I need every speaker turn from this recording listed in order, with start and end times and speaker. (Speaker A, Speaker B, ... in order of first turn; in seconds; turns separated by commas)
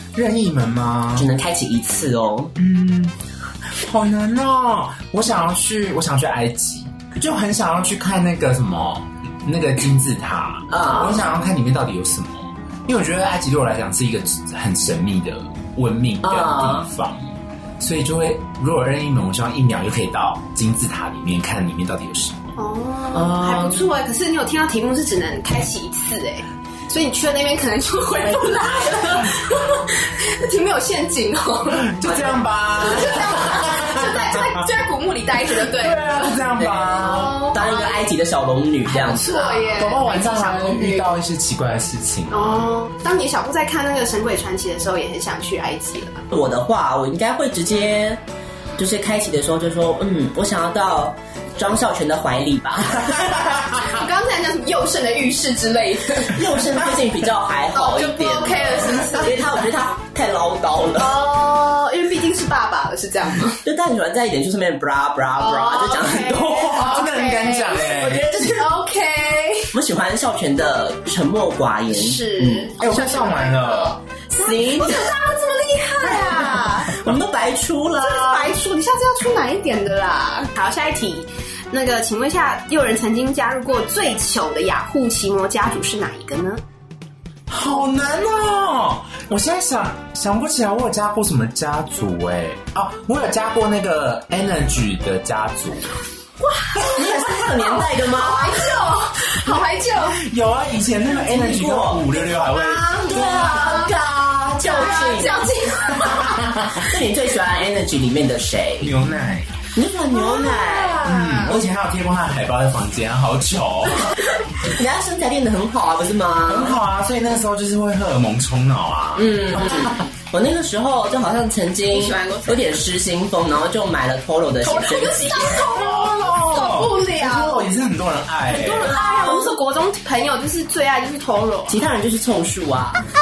Speaker A: 0.1-1.3, Speaker B: 1.2-2.5, Speaker A: 2.6-3.2, Speaker A: 3.8-22.4, Speaker B: 10.7-11.2, Speaker B: 16.2-16.9, Speaker C: 22.6-32.3, Speaker B: 23.1-23.8, Speaker A: 31.7-34.6, Speaker C: 32.8-36.4, Speaker A: 35.6-37.4, Speaker C: 37.0-38.0, Speaker B: 37.5-39.7, Speaker C: 38.9-41.1, Speaker A: 39.6-42.7, Speaker C: 42.3-46.2, Speaker B: 46.3-48.2, Speaker B: 48.8-53.5, Speaker C: 53.8-56.4, Speaker B: 56.3-61.2, Speaker C: 57.7-59.4, Speaker C: 61.0-63.6, Speaker B: 63.6-66.8, Speaker C: 65.4-69.7, Speaker A: 66.5-68.5, Speaker B: 69.7-72.7, Speaker C: 71.9-76.9, Speaker A: 72.8-74.0, Speaker B: 74.4-75.1, Speaker B: 76.1-78.5, Speaker C: 78.0-86.6, Speaker A: 87.5-96.0, Speaker C: 96.4-100.2, Speaker B: 96.8-98.6, Speaker A: 100.0-103.5, Speaker B: 101.3-102.0, Speaker C: 102.5-104.0, Speaker B: 103.1-105.4, Speaker C: 104.6-106.5, Speaker B: 106.8-108.9, Speaker A: 108.8-109.5, Speaker B: 109.8-111.0, Speaker C: 110.1-111.5, Speaker A: 111.0-114.2, Speaker B: 114.6-116.8, Speaker A: 116.5-120.0, Speaker B: 119.2-125.4, Speaker C: 121.9-122.8, Speaker C: 124.6-127.6, Speaker A: 125.4-128.9, Speaker C: 128.5-131.8, Speaker B: 128.9-129.5, Speaker B: 131.7-133.0